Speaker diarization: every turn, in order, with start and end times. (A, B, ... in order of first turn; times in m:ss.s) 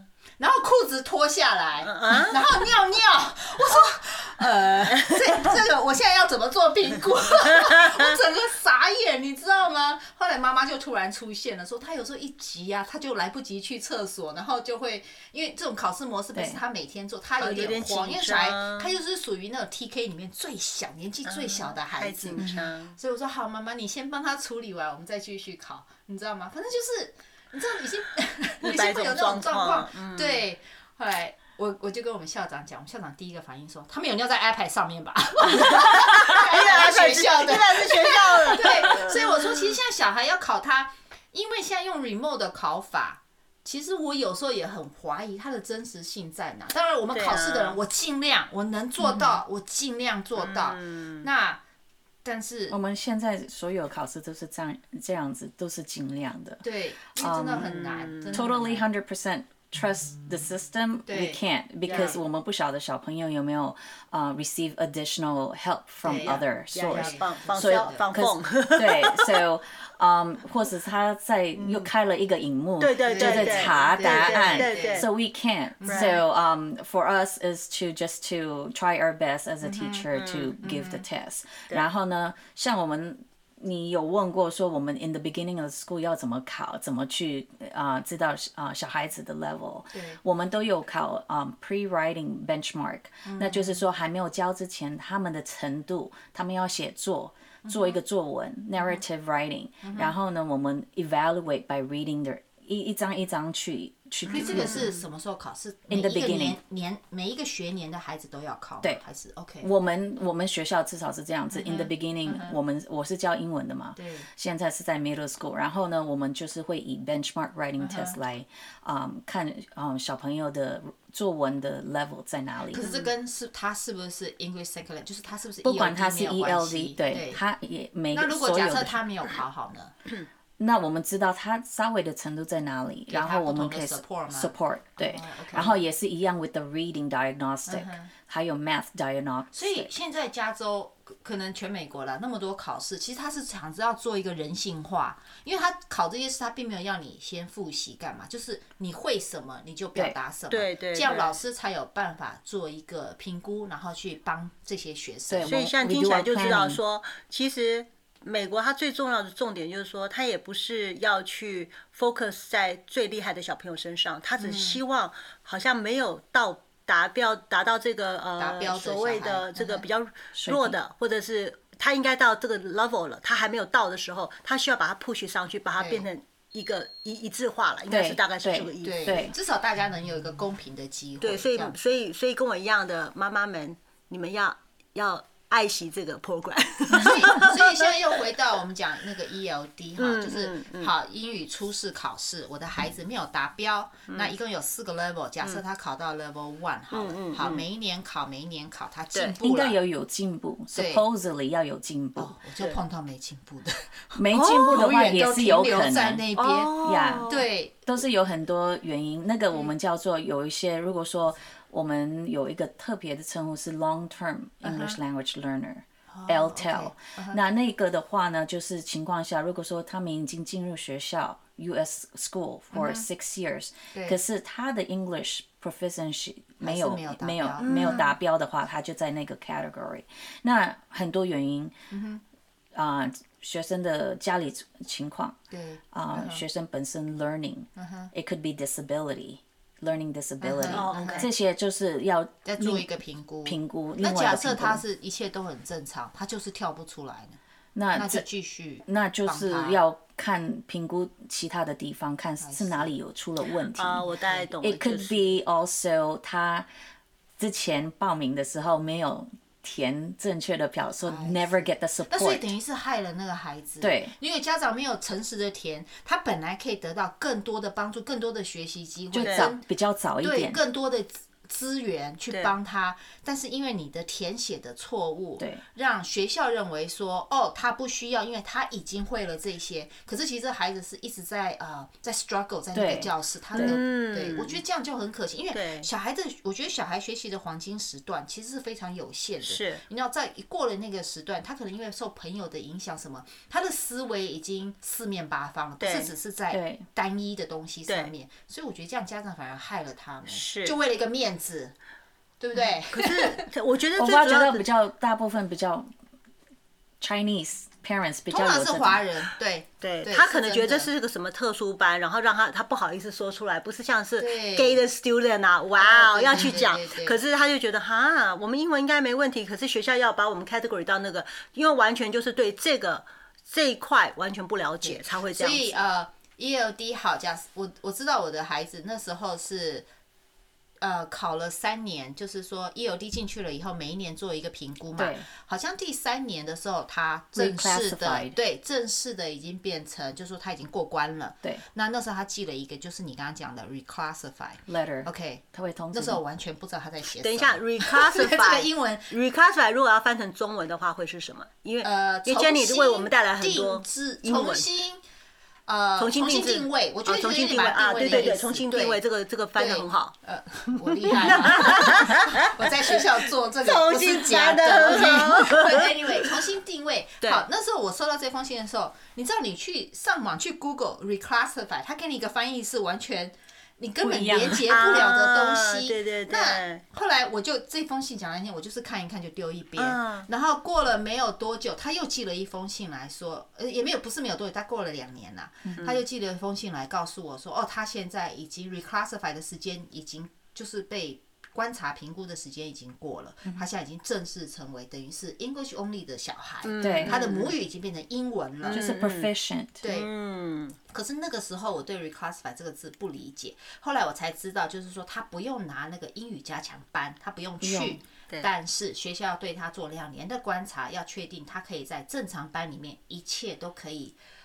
0:00.4-0:51.6 A
0:01.8-0:02.4 B
0:04.9-0:05.5 B
0:16.3-0:16.6 C
0:17.4-0:18.9 B
0:21.2-0:23.0 B
0:22.4-0:22.6 C
0:28.6-0:30.4 B
0:35.5-0:39.7 B
0:47.1-0:47.8 B
0:50.4-0:51.3 B
0:52.2-0:52.8 A
0:52.7-0:56.6 C
0:56.6-0:58.8 A
0:57.1-0:57.7 C
0:57.6-0:58.4 B
0:58.3-1:44.9 C
1:01.1-1:02.2 A
1:01.8-1:02.2 B
1:06.0-1:08.1 A
1:06.7-1:09.4 B
1:11.6-1:11.9 B
1:12.8-1:15.1 B
1:13.0-1:15.1 A
1:15.8-1:16.2 A
1:15.9-1:16.1 B
1:19.6-1:20.1 A
1:20.1-1:20.5 B
1:20.6-1:21.0 A
1:29.9-1:30.2 A
1:33.2-1:33.8 A
1:37.6-1:38.0 A
1:39.8-1:40.1 A
1:44.3-1:49.7 A
1:44.4-1:44.8 B
1:45.9-1:46.6 C
1:49.6-2:03.0 C
1:51.5-1:52.6 A
1:54.0-1:54.3 A
1:57.8-1:58.2 A
2:02.7-2:07.4 A
2:05.6-2:09.0 C
2:08.1-2:10.0 A
2:10.6-2:19.9 C
2:13.1-2:15.8 A
2:17.7-2:18.1 A
2:19.5-2:35.6 A
2:30.5-2:31.4 B
2:35.3-2:36.8 C
2:35.4-2:59.2 B
2:44.4-2:44.8 A
2:48.4-2:49.8 A
2:50.3-2:50.8 C
2:55.8-2:56.1 A
2:57.9-2:59.3 C
2:58.8-3:01.8 A
3:01.2-3:08.0 B
3:06.9-3:19.8 A
3:10.0-3:10.9 B
3:16.9-3:17.6 B
3:19.4-3:22.4 C
3:20.7-3:21.0 A
3:22.2-3:27.8 A
3:24.1-3:26.2 C
3:24.3-3:24.9 B
3:26.3-3:27.4 B
3:26.8-3:51.7 C
3:34.6-3:35.0 A
3:36.1-3:37.4 A
3:42.7-3:43.1 A
3:43.9-3:44.2 A
3:46.6-3:48.1 A
3:47.6-3:48.1 B
3:51.9-3:52.2 A
3:52.7-3:55.4 C
3:55.5-3:56.4 A
3:55.9-4:02.9 C
3:57.8-3:58.1 A
4:00.4-4:01.3 A
4:00.7-4:01.3 B
4:02.4-4:07.4 A
4:03.4-4:04.8 C
4:07.7-4:08.2 C
4:07.9-4:09.8 A
4:08.8-4:16.7 C
4:12.4-4:12.9 A
4:13.7-4:15.2 B
4:14.0-4:14.5 A
4:17.4-4:22.5 C
4:21.0-4:29.6 A
4:23.8-4:24.1 C
4:29.1-4:30.6 C
4:29.2-4:29.5 B
4:30.2-5:01.7 A
4:42.7-4:43.8 C
4:43.5-4:44.6 B
4:45.5-4:45.9 B
4:49.4-4:49.8 B
4:55.8-4:56.1 B
4:56.5-4:56.8 C
4:57.9-4:58.1 B
5:00.3-5:00.8 B
5:02.4-5:03.5 A
5:02.9-5:04.7 B
5:04.0-5:05.9 C
5:07.0-5:09.0 C
5:08.3-5:10.9 A
5:09.8-5:25.8 B
5:14.2-5:14.8 A
5:15.8-5:17.2 A
5:24.8-5:29.9 A
5:30.8-5:49.1 A
5:35.0-5:35.3 C
5:37.3-5:38.4 C
5:44.7-5:46.2 C
5:47.2-5:54.6 B
5:51.8-5:55.0 A
5:55.7-5:59.0 A
5:56.0-6:00.1 B
5:59.5-6:38.8 A
6:00.8-6:06.3 B
6:14.0-6:14.6 C
6:14.6-6:16.8 B
6:19.8-6:20.3 B
6:36.6-6:37.6 B
6:36.8-6:37.2 C
6:38.6-6:39.3 B
6:38.7-6:39.8 C
6:39.8-6:40.1 A
6:39.8-6:40.8 B
6:40.9-6:54.2 A
6:47.6-6:48.0 C